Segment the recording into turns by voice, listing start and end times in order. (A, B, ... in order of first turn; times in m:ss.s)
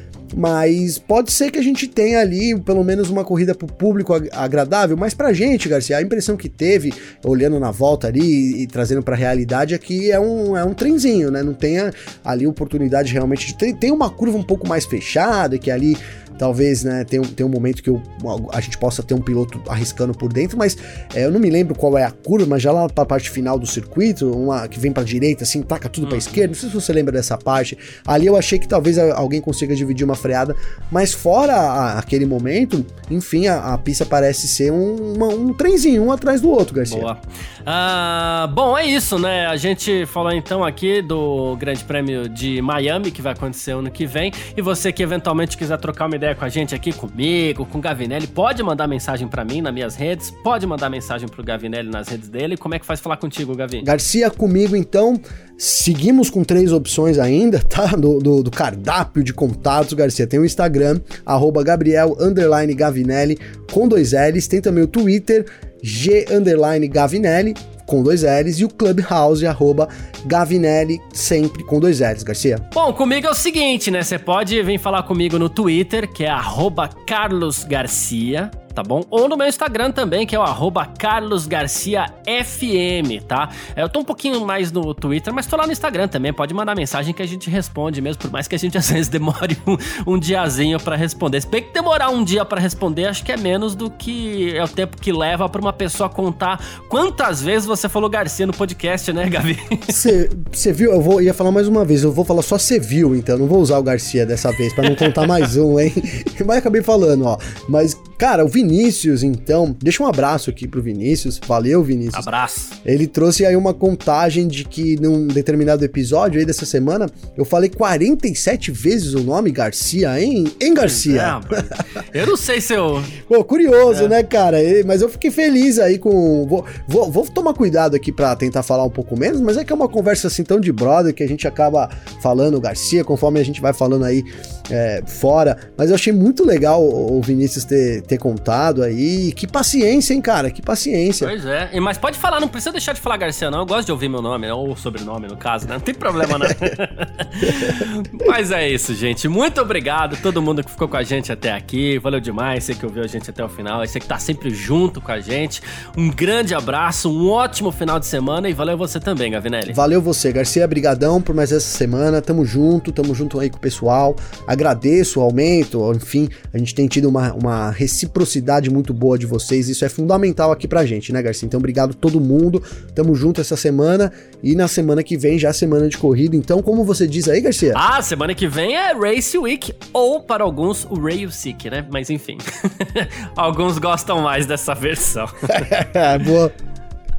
0:00.3-0:37.1 A
0:26.0-0:26.4 B
0:36.9-0:53.9 B
0:53.8-1:12.7 A
1:12.7-1:40.0 B
1:39.9-1:52.3 A
1:44.8-1:45.4 B
1:52.1-1:52.8 B
1:52.8-2:01.8 A
2:00.8-2:03.2 B
2:03.2-2:21.3 A
2:03.9-2:04.2 B
2:21.2-2:39.8 B
2:39.7-2:57.8 A
2:57.7-3:05.7 B
3:05.5-3:06.5 A